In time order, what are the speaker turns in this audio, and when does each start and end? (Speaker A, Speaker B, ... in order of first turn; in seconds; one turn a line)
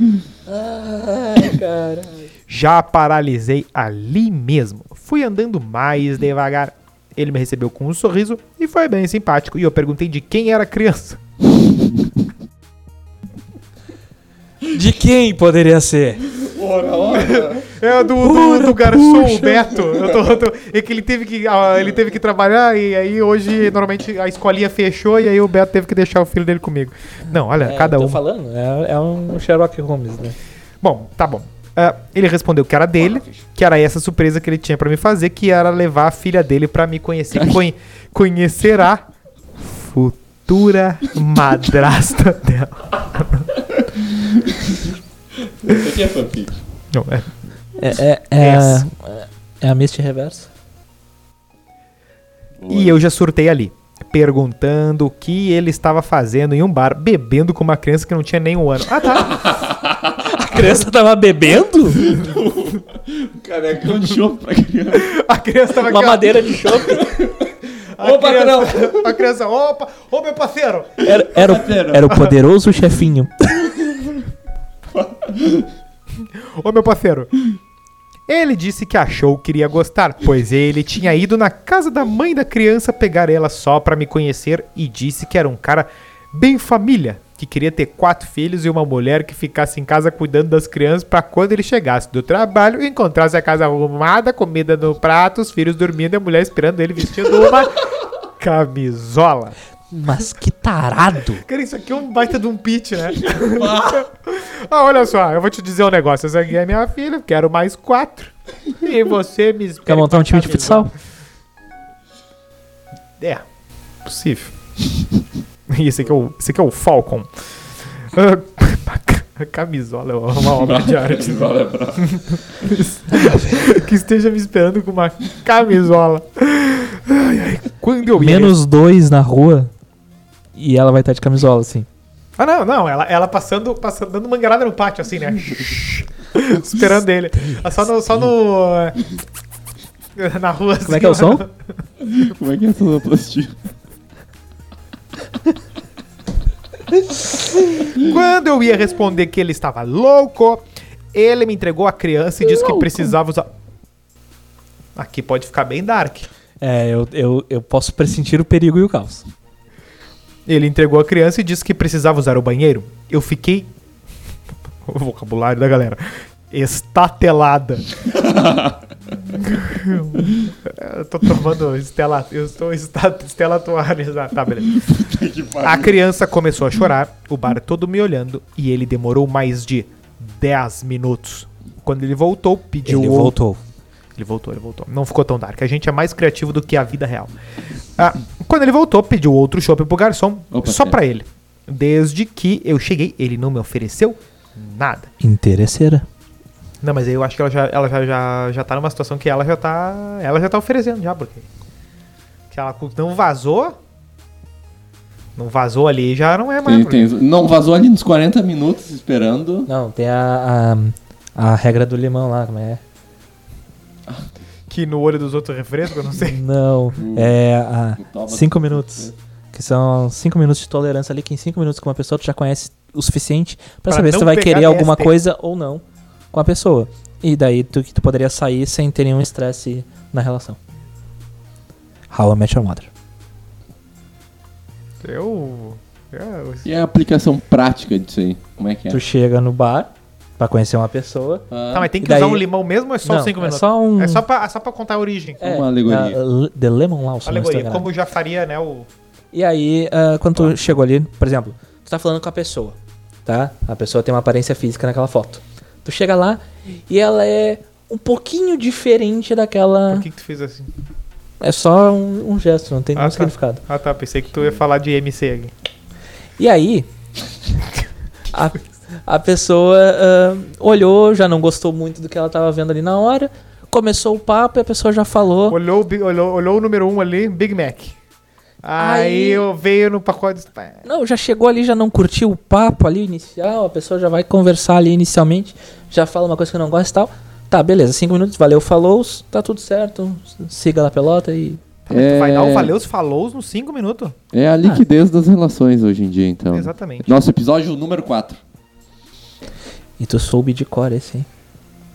Speaker A: 0.5-2.3
Speaker B: 2.5-11.2
Speaker A: 14.7-16.3
Speaker C: 16.3-17.7
Speaker B: 17.1-28.2
Speaker A: 18.2-19.7
Speaker A: 27.6-30.4
Speaker B: 30.8-39.0
Speaker C: 33.1-33.4
Speaker B: 39.6-43.5
Speaker C: 43.7-46.6
Speaker B: 46.9-47.3
Speaker A: 47.8-50.5
Speaker B: 48.4-48.9
Speaker C: 52.6-53.0
Speaker B: 52.7-59.5
Speaker C: 59.3-60.1
Speaker A: 60.2-62.2
Speaker C: 62.0-65.1
Speaker B: 64.9-67.2
Speaker A: 65.8-67.1
Speaker C: 66.8-69.3
Speaker B: 67.8-71.1
Speaker C: 71.0-72.1
Speaker A: 71.0-73.6
Speaker C: 73.8-74.1
Speaker C: 74.9-75.7
Speaker B: 76.2-77.3
Speaker B: 78.3-99.6
Speaker A: 99.9-101.4
Speaker B: 101.4-110.9
Speaker C: 103.2-104.0
Speaker A: 109.8-110.9
Speaker B: 114.0-114.5
Speaker B: 115.7-128.6
Speaker C: 120.4-122.3
Speaker A: 123.1-123.7
Speaker A: 128.2-129.7
Speaker A: 130.5-131.9
Speaker B: 132.4-139.0
Speaker B: 140.2-141.5
Speaker A: 140.8-141.4
Speaker C: 142.0-143.5
Speaker B: 147.9-153.5
Speaker C: 152.4-153.1
Speaker B: 154.9-156.3
Speaker A: 156.6-159.3
Speaker B: 160.5-163.7
Speaker B: 164.8-167.9
Speaker C: 168.0-168.8
Speaker B: 169.3-174.8
Speaker C: 174.7-175.9
Speaker B: 175.6-183.3
Speaker A: 182.8-183.6
Speaker B: 184.2-187.3
Speaker B: 187.9-195.1
Speaker C: 190.5-191.0
Speaker A: 195.2-196.1
Speaker B: 196.8-201.4
Speaker B: 202.5-203.8
Speaker B: 205.3-207.1
Speaker C: 206.6-209.7
Speaker A: 209.7-212.8
Speaker C: 214.1-214.3
Speaker B: 214.7-216.4
Speaker A: 216.2-230.6
Speaker C: 216.9-217.3
Speaker C: 218.0-219.2
Speaker B: 223.9-225.1
Speaker A: 232.1-232.9
Speaker B: 235.0-236.7
Speaker C: 236.6-239.0
Speaker A: 238.9-241.4
Speaker C: 241.5-241.9
Speaker B: 241.7-245.4
Speaker A: 242.0-242.4
Speaker A: 243.0-244.2
Speaker A: 245.4-247.9
Speaker C: 245.4-246.2
Speaker B: 247.2-248.9
Speaker A: 249.3-260.1
Speaker B: 259.9-260.7
Speaker A: 261.4-263.6
Speaker B: 262.9-265.5
Speaker A: 266.4-266.9
Speaker A: 268.3-275.6
Speaker B: 275.5-277.9
Speaker B: 278.6-280.8
Speaker A: 278.8-279.4
Speaker A: 280.8-291.6
Speaker B: 291.9-294.1
Speaker C: 291.9-292.8
Speaker C: 294.3-298.4
Speaker B: 296.5-297.1
Speaker A: 300.0-301.3